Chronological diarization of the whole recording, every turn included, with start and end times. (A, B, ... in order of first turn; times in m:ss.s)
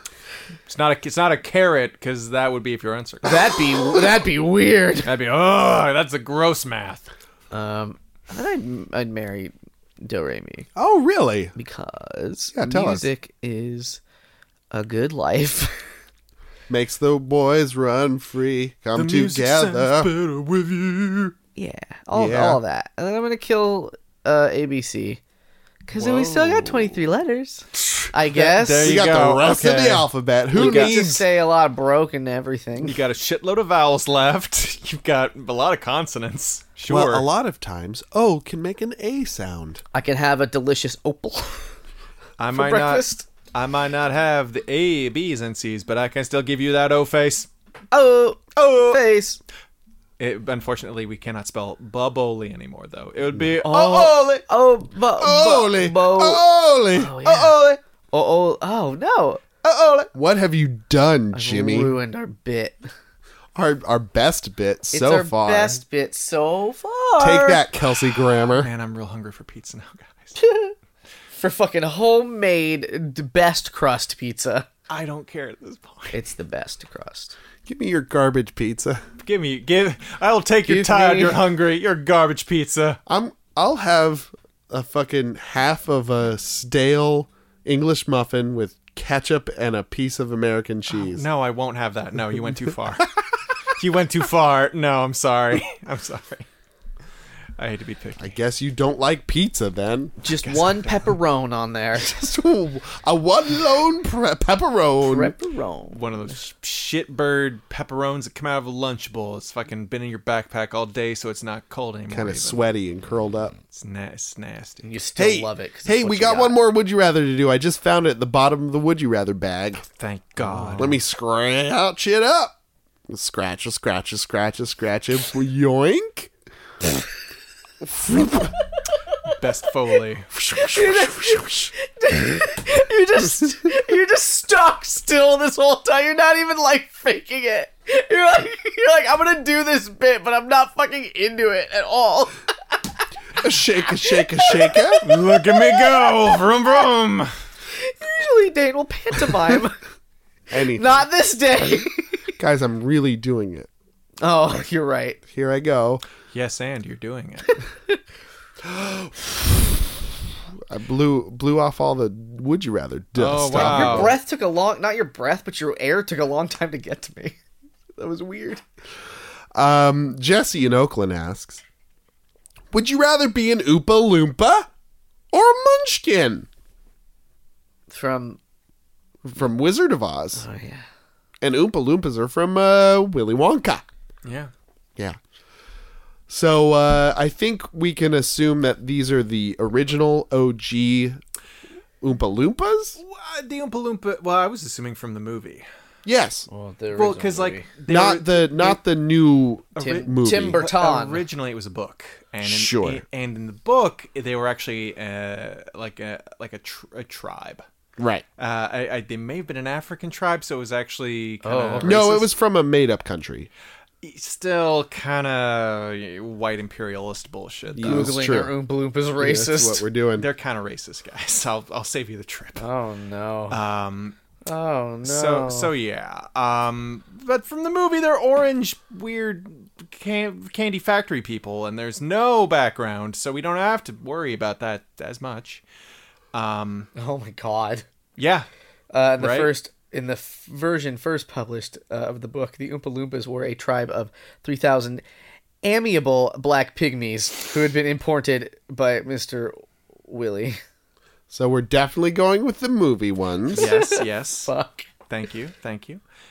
0:00.7-0:03.4 A
0:03.2-0:05.1 B
0:05.0-0:07.1 A
0:07.5-0:10.7 B
0:10.8-0:11.5 C
0:11.6-0:14.0 B
0:12.5-0:13.1 C
0:14.7-0:15.8 B
0:16.7-0:21.3 C
0:19.0-0:20.8 A
0:21.6-0:25.2 B
0:22.1-0:22.6 C
0:25.9-0:29.0 B
0:26.0-0:27.0 A
0:28.0-0:31.0 A
0:28.8-0:31.2 C
0:30.6-0:33.0 B
0:32.8-0:37.3 A
0:36.9-0:39.8 C
0:39.9-0:41.8 B
0:42.4-0:47.5 A
0:42.5-0:43.3 B
0:47.9-0:49.4 B
0:48.6-0:49.0 A
0:50.2-0:54.4 A
0:53.6-0:57.6 B
0:55.2-0:57.6 C
0:57.3-0:57.6 A
0:58.1-0:59.4 B
0:59.6-1:00.1 A
1:00.1-1:02.0 C
1:01.3-1:02.8 B
1:03.6-1:05.8 C
1:04.9-1:07.6 B
1:07.2-1:08.7 C
1:08.4-1:10.4 A
1:10.4-1:10.8 B
1:11.4-1:14.7 B
1:14.9-1:16.2 A
1:16.1-1:17.4 B
1:17.7-1:19.0 C
1:19.2-1:23.0 A
1:20.7-1:21.4 B
1:23.1-1:31.2 C
1:30.9-1:33.1 A
1:33.6-1:36.5 A
1:37.6-1:38.4 A
1:38.2-1:40.2 C
1:40.2-1:42.2 B
1:40.3-1:41.2 A
1:42.0-1:45.4 C
1:45.0-1:46.4 B
1:45.9-1:52.6 A
1:52.1-1:53.6 C
1:53.7-1:54.8 A
1:54.8-1:56.6 B
1:55.2-1:59.8 C
1:59.9-2:01.0 A
2:00.4-2:00.9 B
2:00.8-2:02.6 C
2:03.1-2:06.3 C
2:07.8-2:08.5 C
2:09.2-2:10.3 A
2:10.3-2:11.7 C
2:10.6-2:23.0 B
2:23.4-2:25.0 C
2:24.0-2:26.4 B
2:25.0-2:27.3 A
2:27.7-2:29.8 B
2:30.5-2:31.0 C
2:30.7-2:32.3 B
2:32.4-2:33.7 C
2:34.2-2:35.2 B
2:35.3-2:36.0 C
2:36.3-2:37.6 A
2:38.6-2:39.8 C
2:40.7-2:44.2 C
2:43.2-2:44.2 A
2:43.5-2:47.4 B
2:48.0-2:48.6 B
2:49.6-2:51.6 C
2:52.7-2:54.7 C
2:55.3-2:56.5 C
2:57.9-2:58.4 B
2:59.2-3:00.4 C
3:00.4-3:00.9 B
3:01.4-3:03.8 C
3:04.2-3:04.5 A
3:06.3-3:11.2 C
3:12.0-3:13.0 C
3:13.0-3:15.7 A
3:16.0-3:16.5 C
3:16.5-3:17.7 B
3:17.0-3:18.8 A
3:17.9-3:20.7 C
3:19.8-3:21.2 B
3:19.8-3:20.1 A
3:20.6-3:27.6 A
3:22.4-3:23.0 C
3:28.0-3:28.2 C
3:28.4-3:32.2 A
3:31.4-3:32.2 B
3:31.8-3:33.5 C
3:34.0-3:38.1 A
3:37.7-3:38.5 C
3:37.8-3:39.8 B
3:39.2-3:40.3 C
3:40.2-3:42.6 A
3:42.6-3:43.6 B
3:43.5-3:44.2 A
3:44.5-3:45.7 B
3:45.0-3:55.6 A
3:56.3-3:56.9 A
3:57.0-3:57.8 B
3:58.2-3:58.5 A
3:58.9-4:05.0 B
3:59.2-3:59.5 A
4:05.6-4:10.6 B
4:11.3-4:13.7 C
4:13.5-4:14.9 B
4:13.6-4:14.5 A
4:15.1-4:16.0 A